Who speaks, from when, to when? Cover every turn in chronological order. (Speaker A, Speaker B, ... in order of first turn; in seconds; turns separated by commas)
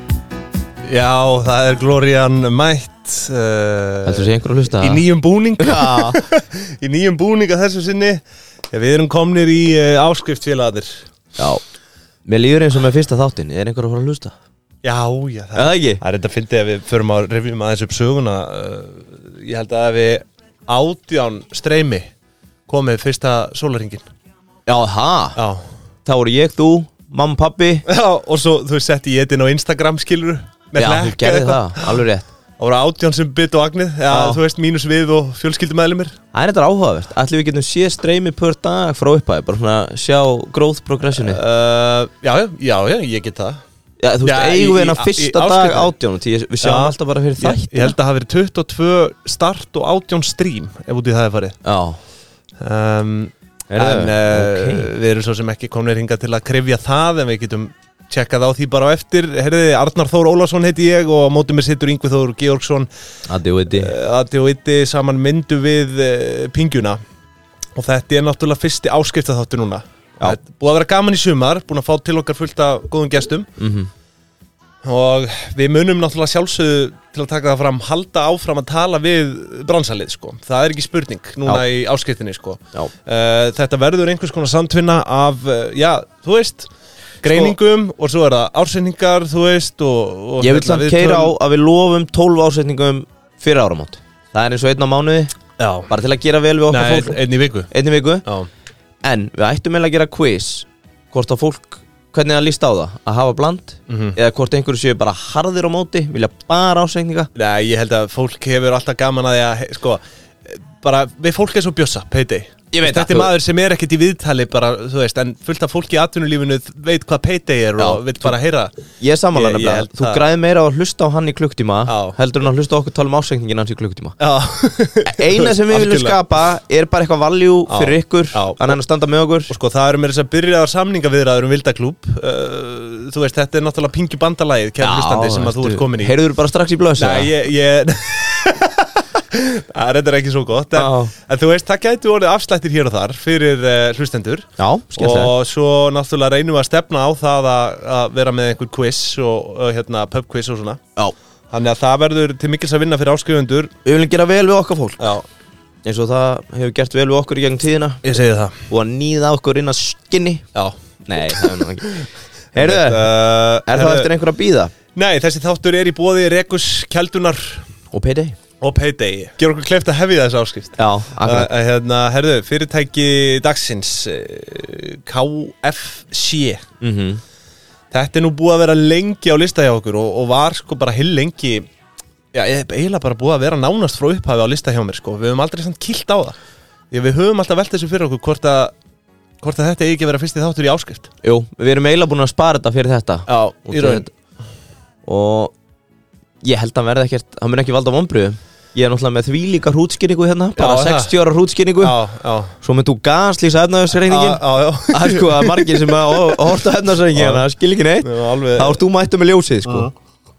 Speaker A: 0.9-11.0, Speaker B: 4.0-5.0, Speaker B: 5.6-6.2, Speaker B: 11.4-11.6, Speaker B: 12.3-14.3, Speaker A: 14.8-22.1, Speaker B: 15.6-16.0, Speaker A: 22.7-24.1, Speaker B: 24.7-25.4, Speaker A: 25.4-25.6, Speaker B: 26.1-27.9, Speaker A: 27.9-32.0, Speaker B: 30.8-32.3, Speaker A: 32.6-36.2, Speaker B: 34.1-34.4, Speaker B: 36.3-41.4, Speaker A: 41.1-43.6, Speaker B: 44.0-48.0, Speaker A: 44.2-45.9, Speaker A: 46.6-51.6, Speaker B: 51.6-52.0, Speaker A: 52.6-62.9, Speaker B: 53.7-54.9, Speaker B: 63.3-63.9, Speaker A: 63.8-67.0, Speaker A: 67.8-73.5, Speaker B: 73.6-73.9, Speaker A: 74.8-86.7, Speaker A: 87.2-91.3, Speaker B: 87.3-87.6, Speaker B: 90.4-95.3, Speaker A: 95.6-95.9, Speaker B: 95.9-98.2, Speaker A: 96.7-97.7, Speaker B: 99.0-107.3, Speaker A: 103.9-104.2, Speaker A: 107.3-118.7, Speaker B: 112.7-113.3, Speaker B: 117.8-118.3, Speaker B: 119.0-124.2, Speaker A: 119.3-120.2, Speaker A: 121.9-122.2, Speaker A: 124.2-126.2, Speaker B: 125.1-129.5, Speaker A: 127.7-128.8, Speaker A: 129.5-136.2, Speaker B: 134.8-137.3, Speaker A: 137.0-150.8, Speaker B: 140.8-141.1, Speaker B: 144.6-145.3, Speaker A: 151.5-153.7, Speaker B: 153.8-155.1, Speaker A: 155.0-155.2, Speaker B: 155.8-158.0, Speaker A: 158.0-158.6, Speaker B: 158.7-160.4, Speaker A: 160.6-164.1, Speaker B: 161.1-162.0, Speaker B: 162.5-163.1, Speaker B: 163.7-164.7, Speaker A: 164.9-167.7, Speaker B: 167.9-168.4, Speaker A: 168.6-176.6, Speaker B: 170.8-171.5, Speaker B: 176.8-177.2, Speaker A: 177.9-181.7, Speaker A: 182.3-186.4, Speaker A: 186.9-188.7, Speaker A: 189.4-191.1, Speaker B: 191.2-194.1, Speaker A: 193.3-194.1, Speaker B: 195.1-195.5, Speaker B: 196.4-202.0, Speaker A: 200.6-201.1, Speaker A: 201.8-202.6, Speaker B: 202.6-209.9, Speaker A: 204.1-206.6, Speaker A: 207.1-207.5, Speaker A: 208.0-208.8, Speaker A: 209.7-209.9